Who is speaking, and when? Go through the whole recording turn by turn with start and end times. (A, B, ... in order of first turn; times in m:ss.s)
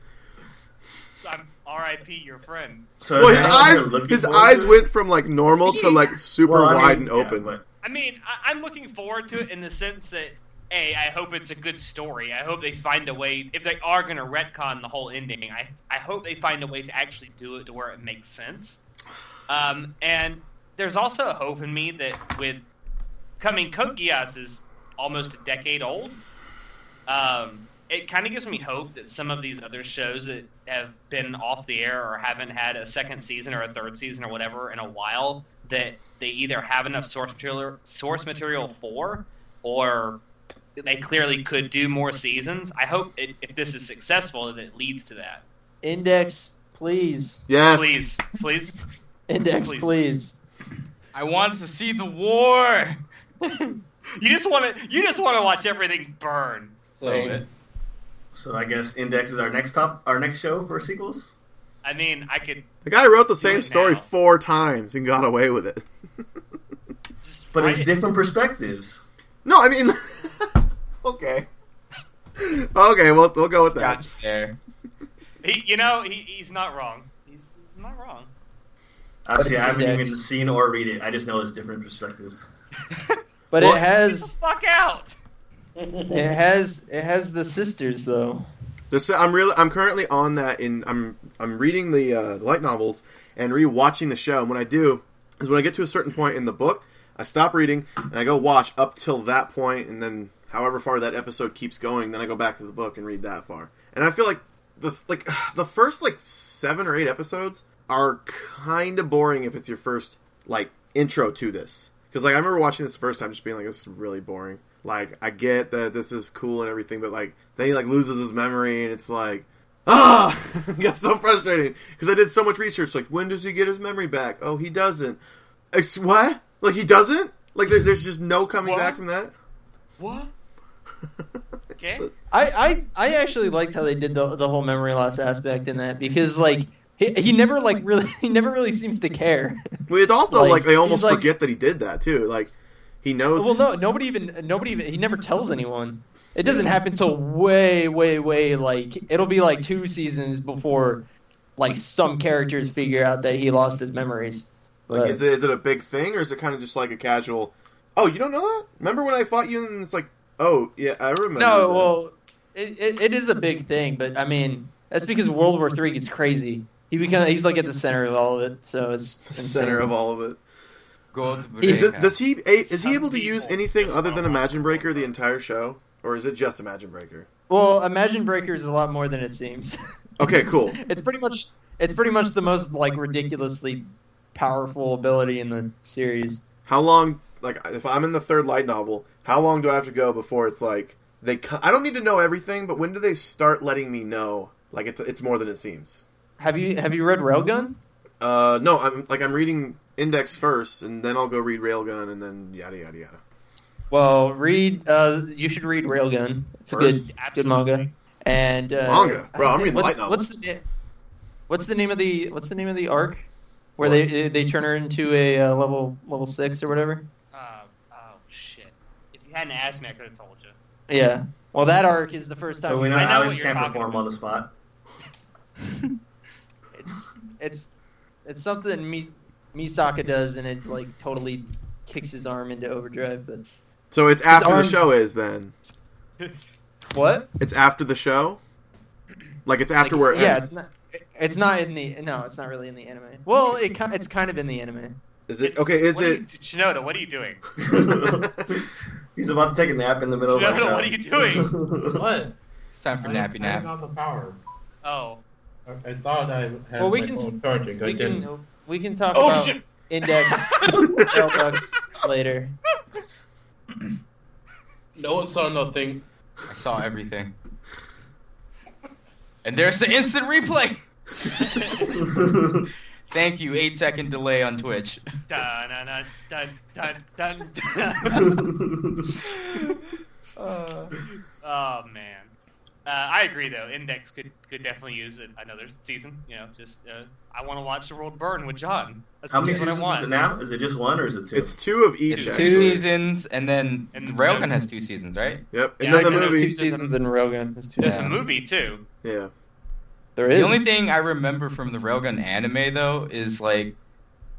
0:01.2-0:03.5 A
0:03.0-0:04.8 B
0:03.2-0:07.5 C
0:06.4-0:07.6 B
0:07.8-0:18.8 A
0:19.5-0:22.6 A
0:23.4-0:26.2 A
0:27.1-0:40.2 A
0:40.8-0:45.4 A
0:45.8-0:47.5 D
0:47.5-0:48.1 C
0:47.7-0:48.8 A
0:49.3-0:50.4 D
0:49.6-0:50.0 A
0:51.1-0:53.0 E
0:53.4-0:56.8 A
0:57.0-0:57.5 F
0:57.0-0:57.4 E
0:58.3-1:01.4 B
1:01.8-1:02.7 A
1:02.8-1:05.9 C
1:03.4-1:04.1 A
1:07.2-1:07.9 A
1:07.6-1:09.0 B
1:09.4-1:11.5 C
1:12.4-1:14.0 C
1:13.7-1:14.6 E
1:15.4-1:18.3 A
1:19.3-1:22.5 B
1:19.4-1:20.2 D
1:23.5-1:24.4 D
1:23.6-1:25.2 A
1:25.8-1:26.1 F
1:26.1-1:28.5 D
1:28.9-2:05.2 C
2:05.7-2:09.3 C
2:08.6-2:09.0 A
2:10.0-2:10.3 A
2:11.7-2:12.1 C
2:11.8-2:12.1 A
2:12.3-2:19.6 D
2:19.9-2:23.6 C
2:20.3-2:21.3 D
2:23.4-2:31.0 D
2:31.6-2:35.2 D
2:34.9-2:41.9 C
2:41.4-2:49.9 D
2:49.4-2:50.4 C
2:51.1-2:52.2 E
2:51.6-2:57.3 C
2:52.6-2:55.1 A
2:57.5-3:06.4 D
3:00.2-3:00.8 C
3:06.7-3:16.0 C
3:16.4-3:17.8 D
3:18.2-3:23.2 C
3:23.9-3:30.6 D
3:26.8-3:27.9 A
3:28.8-3:30.2 C
3:31.5-3:37.0 D
3:37.3-3:40.6 A
3:40.9-3:43.5 D
3:42.7-3:44.5 B
3:42.9-3:44.0 A
3:46.8-3:47.7 D
3:48.2-3:53.4 D
3:53.9-3:55.5 C
3:54.3-3:54.9 D
3:56.9-3:57.3 D
3:57.4-3:58.4 C
3:59.5-4:00.6 C
3:59.8-4:05.0 D
4:05.3-4:06.2 C
4:05.4-4:07.4 A
4:07.6-4:12.0 B
4:10.3-4:11.5 A
4:11.9-4:12.3 F
4:12.7-4:13.7 E
4:13.0-4:14.4 F
4:14.8-4:15.2 A
4:15.7-4:18.3 F
4:16.8-4:22.6 D
4:19.1-4:19.6 F
4:25.0-4:26.0 F
4:26.5-4:27.3 E
4:29.4-4:30.8 E
4:31.4-4:31.9 A
4:31.9-4:32.7 B
4:33.1-4:35.0 E
4:35.3-4:38.3 A
4:38.1-4:39.1 B
4:39.3-4:39.7 E
4:41.4-4:42.3 A
4:42.9-4:50.1 A
4:49.3-4:51.6 B
4:51.3-4:52.8 C
4:52.1-4:52.7 A
4:52.1-4:55.4 E
4:52.3-4:52.7 D
4:53.9-4:54.7 A
4:55.5-4:56.5 C
4:55.8-4:56.9 A
4:55.8-4:58.2 D
4:57.8-4:58.8 A
4:59.0-4:59.3 C
5:00.2-5:00.7 D
5:00.3-5:03.7 E